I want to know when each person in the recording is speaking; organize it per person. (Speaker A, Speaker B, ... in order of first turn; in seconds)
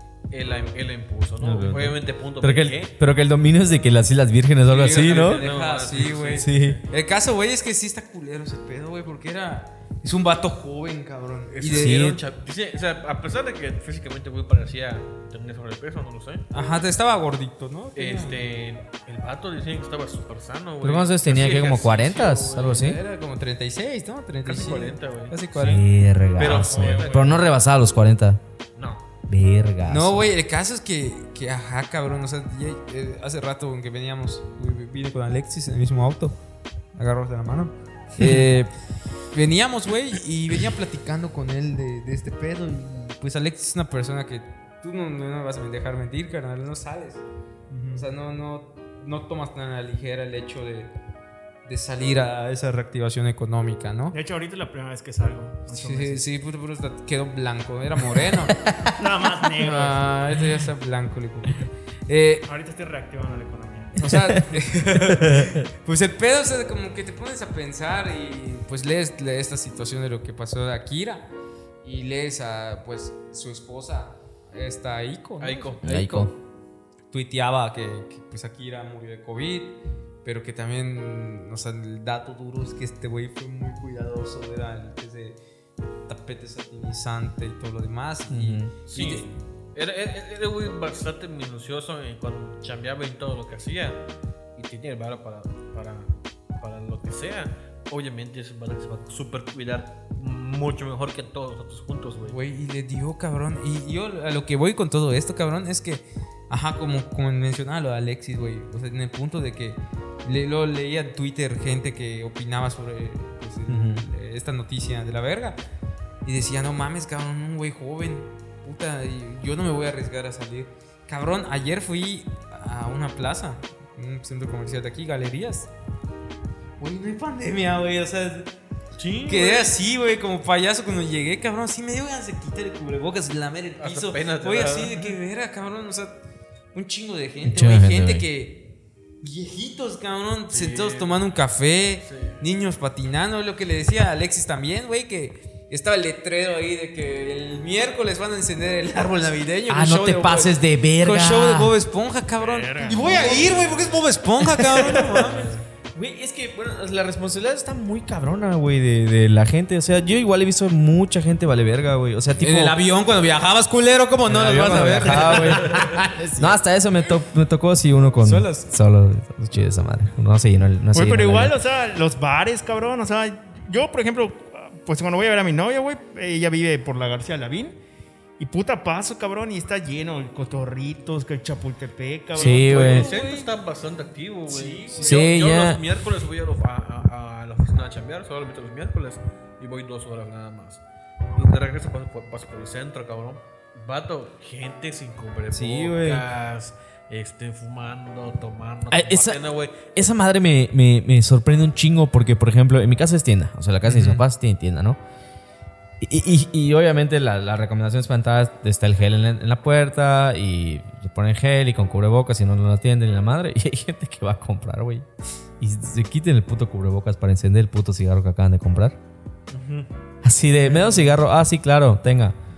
Speaker A: 0.3-2.9, 4.9-6.8, 11.5-16.4, 17.9-22.8, 24.4-25.4, 26.4-27.4, 28.8-29.0, 75.4-76.3, 88.9-94.0, 94.5-102.4, 129.0-129.7, 133.8-135.1, 140.5-141.2, 142.0-142.4, 155.1-155.6, 165.0-165.9, 182.3-190.8, 191.3-199.9, 219.5-219.9, 220.6-221.1
Speaker B: 1.4-5.4, 6.4-6.8, 11.7-12.2, 20.8-23.0, 25.5-28.4, 29.3-30.3, 38.2-38.5, 64.1-64.4, 65.0-65.6, 75.8-76.3, 88.3-88.7, 113.7-114.0, 137.4-138.2, 149.7-151.7, 154.5-155.1, 155.9-162.8, 164.3-171.6, 182.3-183.1, 185.0-185.8, 195.5-196.3, 198.9-205.0, 206.0-215.1, 215.6-219.0, 220.2-222.3
Speaker C: 4.7-12.0, 16.5-18.4, 22.6-25.8, 29.9-36.4, 36.9-38.7, 39.3-47.2, 48.0-50.9, 51.6-54.1, 55.7-58.6, 59.6-62.5, 64.0-71.3, 71.8-76.3, 77.1-85.4, 86.1-89.3, 102.2-115.5, 116.2-125.7, 126.8-128.5, 129.3-136.2, 136.7-138.6, 139.2-155.6, 162.4-166.6, 168.2-168.6, 182.7-183.5, 184.5-185.2, 203.9-204.2
Speaker D: 26.4-27.4, 47.7-48.0, 54.1-56.2, 58.8-60.0, 62.5-64.0, 152.4-154.0, 170.9-177.8, 178.4-182.7